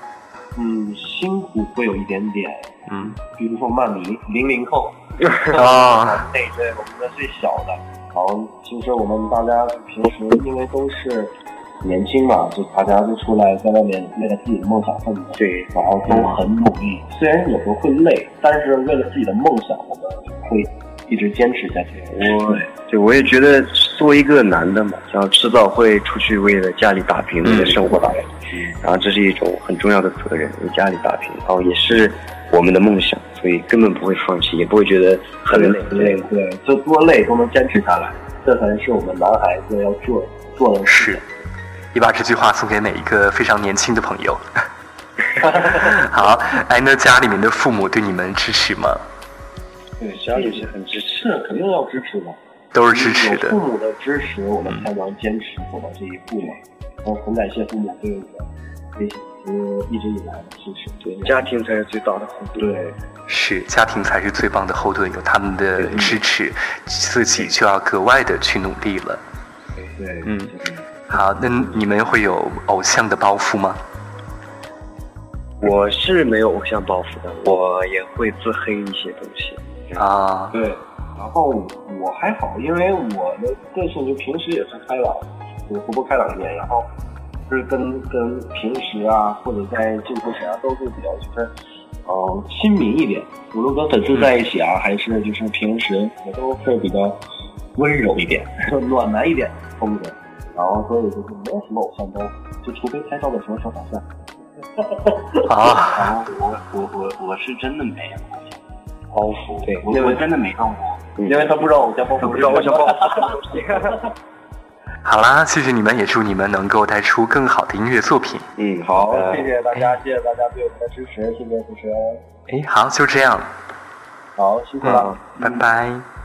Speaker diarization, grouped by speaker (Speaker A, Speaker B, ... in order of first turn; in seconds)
Speaker A: 0.5-22.7, 35.5-41.2, 50.0-52.4, 52.9-61.5, 62.6-62.9, 70.0-70.8, 80.5-86.9, 87.5-91.5, 92.0-97.2, 97.8-104.0, 104.8-106.3, 109.6-110.4, 111.2-113.7, 118.9-122.2, 124.3-125.6
Speaker B: 2.9-3.2, 5.5-6.2, 27.4-27.7, 40.9-41.2, 41.9-44.4, 45.5-49.0, 52.7-53.6, 63.3-69.2, 70.2-70.5, 71.1-73.8, 80.0-80.6, 105.5-106.1, 115.0-118.5, 122.5-123.5, 124.8-126.0
Speaker C: 5.2-5.5, 15.3-16.4, 22.1-36.3, 50.1-51.4, 61.0-62.9, 65.8-66.2, 75.6-80.1, 106.1-108.6, 109.1-114.1, 118.6-119.5, 124.9-125.2